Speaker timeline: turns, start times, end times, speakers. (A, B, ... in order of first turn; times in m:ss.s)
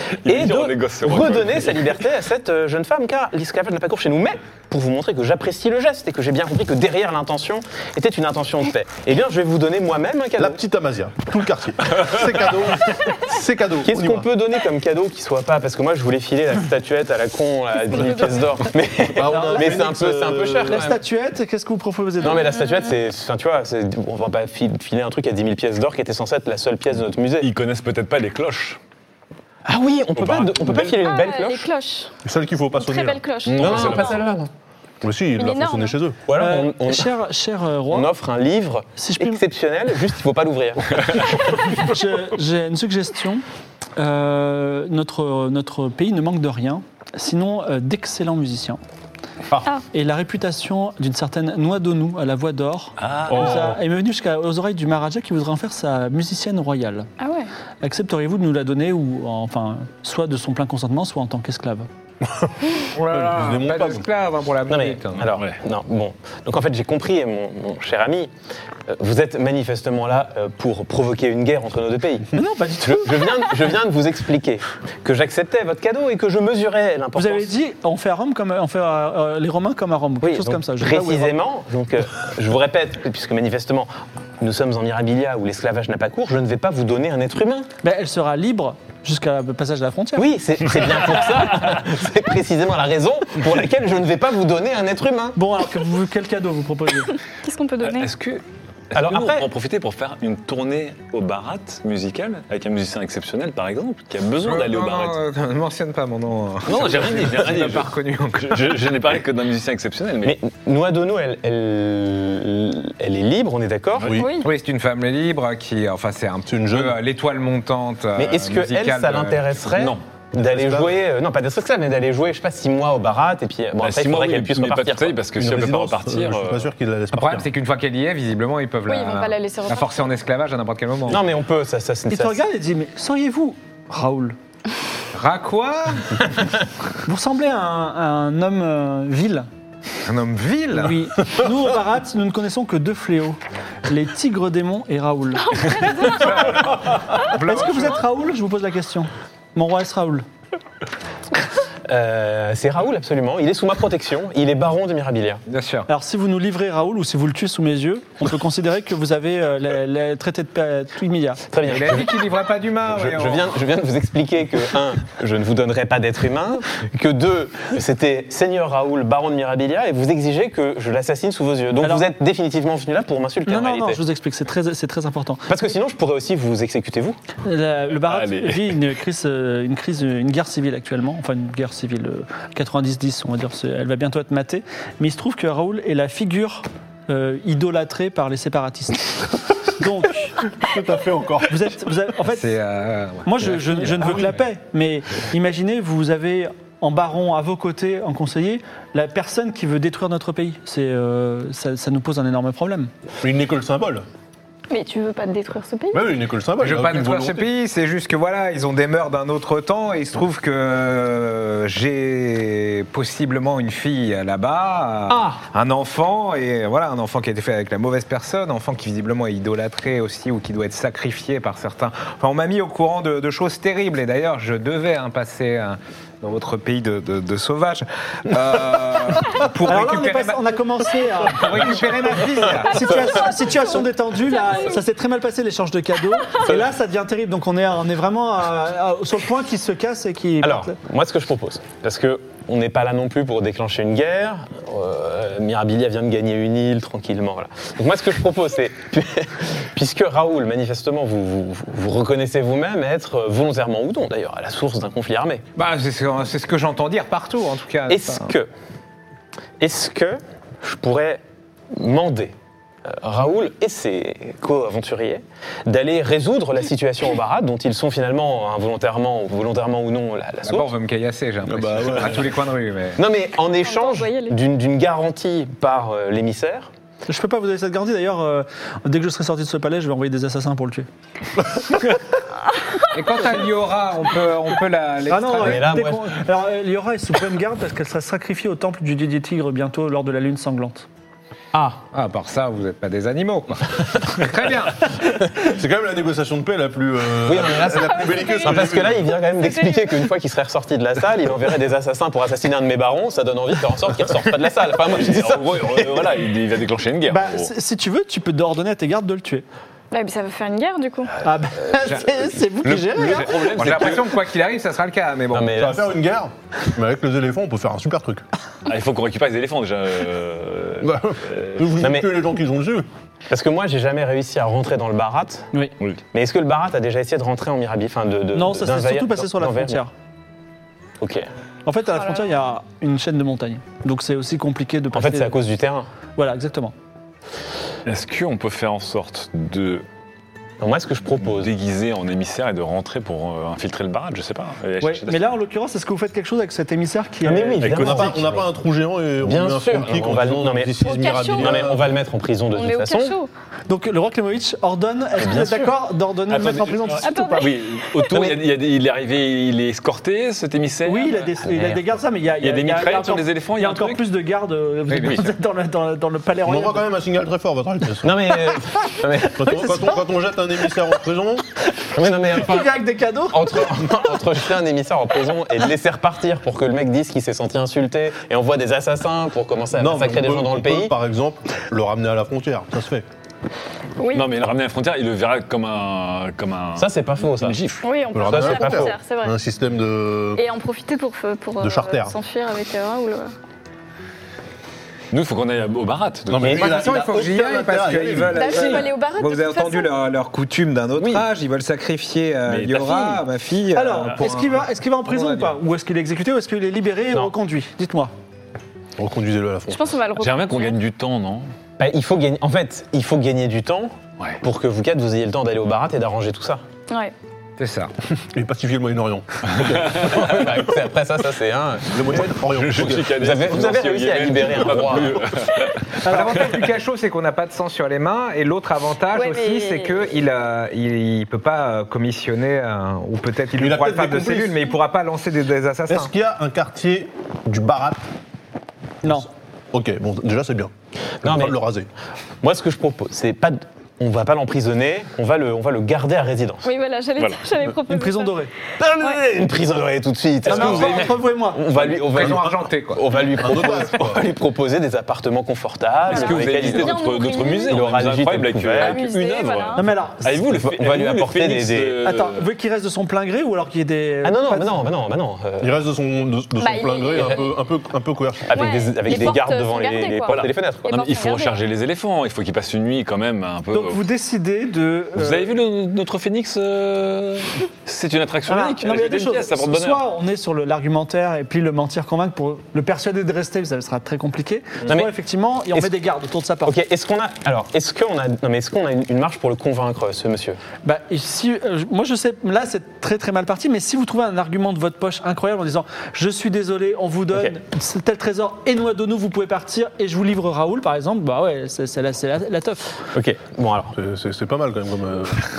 0:00.2-0:01.9 A
0:00.2-0:10.6 B
0:10.4-0:14.3 C
0:13.8-0:21.0 B
0:19.1-0:20.9 C
0:19.3-0:19.7 D
0:20.7-0:22.6 D
0:22.2-0:27.5 B
0:22.4-0:22.9 E
0:27.4-0:28.8 A
0:29.6-0:31.7 B
0:30.2-0:31.0 A
0:31.0-0:32.1 E
0:32.2-0:33.2 C
0:32.7-0:34.2 E
0:33.5-0:34.5 B
0:33.5-0:34.2 A
0:35.0-0:36.2 C
0:35.4-0:36.0 E
0:36.3-0:37.1 B
0:36.3-0:38.1 D
0:37.9-0:41.4 B
0:39.0-0:39.4 D
0:41.7-0:43.4 D
0:44.0-0:48.8 D
0:49.9-0:57.1 D
0:53.0-0:53.8 A
0:53.3-0:53.8 C
0:57.2-0:57.5 E
0:57.8-1:01.9 D
1:02.2-1:04.0 C
1:02.9-1:05.2 F
1:04.7-1:08.3 B
1:05.3-1:05.6 A
1:08.9-1:17.5 B
1:12.3-1:13.5 D
1:17.1-1:21.4 D
1:20.2-1:27.7 B
1:27.8-1:30.3 D
1:30.2-1:35.4 B
1:35.4-1:37.1 D
1:37.4-1:38.1 E
1:37.8-1:45.2 A
1:38.9-1:39.5 B
1:44.4-1:48.8 F
1:46.6-1:47.8 B
1:46.7-1:50.4 A
1:50.2-1:54.2 B
1:54.0-1:54.3 C
1:54.1-1:54.5 E
1:54.4-1:59.4 F
1:56.5-1:57.0 C
1:58.2-2:05.2 B
1:59.7-2:00.0 A
2:00.5-2:00.9 C
2:03.8-2:06.7 A
2:05.4-2:07.5 C
2:07.1-2:11.2 F
2:08.9-2:10.1 E
2:11.1-2:12.4 B
2:12.1-2:14.4 D
2:15.1-2:16.2 F
2:17.0-2:19.5 D
2:20.0-2:21.1 F
2:20.7-2:26.0 D
2:25.4-2:26.6 E
2:26.0-2:28.0 F
2:27.3-2:30.2 D
2:31.9-2:35.4 B
2:35.5-2:35.9 F
2:35.9-2:41.4 D
2:41.5-2:42.2 B
2:41.6-2:43.5 F
2:42.9-2:54.0 B
2:51.8-2:52.1 D
2:53.4-2:55.5 D
2:55.5-2:57.2 B
2:57.4-3:10.4 D
2:58.0-2:58.7 A
3:10.6-3:11.7 C
3:11.5-3:12.5 D
3:12.2-3:14.4 F
3:13.2-3:22.9 D
3:23.2-3:24.0 C
3:24.7-3:26.1 E
3:25.9-3:27.5 C
3:26.6-3:50.4 F
3:35.1-3:35.4 B
3:49.6-3:51.6 D
3:51.2-3:53.1 F
3:52.6-4:00.8 D
3:54.2-3:54.8 E
4:00.4-4:15.4 B
4:15.6-4:18.3 F
4:17.9-4:18.5 B
4:19.6-4:30.7 B
4:30.4-4:33.0 F
4:31.4-4:32.3 C
4:33.0-4:36.7 B
4:33.6-4:34.4 E
4:37.1-4:40.9 D
4:42.9-4:45.7 F
4:45.1-4:50.9 D
4:45.4-4:46.2 B
4:51.5-4:51.8 B
4:51.9-4:55.0 F
4:55.4-4:59.1 C
4:57.2-5:06.2 B
4:57.6-4:58.7 E
4:59.4-5:00.0 E
5:04.8-5:07.5 A
5:07.1-5:09.4 D
5:09.9-5:11.1 E
5:11.2-5:13.6 D
5:12.6-5:14.2 A
5:13.4-5:15.6 F
5:15.3-5:15.8 B
5:15.5-5:18.2 C
5:18.6-5:21.8 A
5:20.8-5:22.9 C
5:21.8-5:22.1 B
5:23.3-5:25.5 B
5:26.1-5:29.8 B
5:28.3-5:29.9 D
5:31.0-5:31.3 B
5:31.6-5:35.4 D
5:34.9-5:35.9 B
5:36.2-5:36.7 D
5:37.8-5:39.8 A
5:40.6-5:41.5 B
5:41.2-5:45.3 A
5:44.8-5:47.7 D
5:47.2-5:48.4 B
5:47.6-5:48.2 A
5:47.6-5:51.9 C
5:49.2-5:53.2 B
5:50.8-5:51.6 E
5:52.5-5:53.3 E
5:53.7-5:57.5 D
5:55.2-5:55.7 B
5:56.3-6:01.8 A
5:57.0-5:58.1 E
5:58.1-5:58.4 B
6:00.8-6:06.9 D
6:02.4-6:04.0 A
6:04.9-6:05.3 F
6:06.4-6:08.3 C
6:08.0-6:09.6 B
6:09.2-6:11.5 C
6:09.4-6:10.0 D
6:11.9-6:20.9 B
6:12.3-6:13.8 D
6:19.8-6:23.0 C
6:24.0-6:24.3 E
6:24.1-6:27.8 A
6:26.8-6:27.6 B
6:27.8-6:29.4 E
6:28.1-6:30.4 C
6:28.3-6:29.0 B
6:30.4-6:33.3 E
6:31.6-6:32.1 C
6:35.1-6:36.9 A
6:36.3-6:38.8 C
6:36.5-6:45.5 F
6:38.3-6:39.9 E
6:41.0-6:41.3 A
6:42.5-6:43.2 A
6:43.7-6:48.1 D
6:49.0-6:49.8 C
6:49.7-6:50.8 E
6:50.2-6:51.5 A
6:51.8-6:56.6 B
6:56.9-6:57.1 E
6:57.6-6:57.9 F
6:58.2-7:00.6 C
6:59.6-7:00.3 A
6:59.9-7:02.2 B
7:01.9-7:03.4 C
7:02.4-7:06.7 A
7:03.0-7:05.2 B
7:06.0-7:06.5 D
7:06.0-7:16.1 F
7:09.1-7:10.0 E
7:13.6-7:14.7 C
7:15.9-7:18.0 C
7:19.0-7:20.7 C
7:21.2-7:21.6 B
7:21.2-7:21.9 C
7:22.4-7:26.7 B
7:26.6-7:28.5 E
7:27.2-7:27.4 A
7:27.9-7:28.5 D
7:28.8-7:37.1 B
7:30.4-7:31.6 D
7:30.5-7:31.1 A
7:31.7-7:32.3 A
7:31.8-7:33.0 F
7:33.4-7:34.3 C
7:36.1-7:42.4 A
7:36.1-7:37.9 E
7:37.7-7:39.0 B
7:38.8-7:39.9 E
7:39.8-7:40.4 D
7:40.5-7:42.0 B
7:42.0-7:44.7 D
7:44.2-7:45.7 B
7:45.6-7:48.7 C
7:46.6-7:47.5 E
7:47.1-7:47.4 B
7:48.5-7:50.9 B
7:48.5-7:51.7 E
7:50.3-7:54.0 A
7:53.7-7:55.5 D
7:55.1-8:00.0 A
7:58.5-8:06.7 D
8:04.8-8:05.1 B
8:06.6-8:10.6 B
8:10.8-8:22.9 D
8:23.1-8:23.9 B
8:23.9-8:25.5 C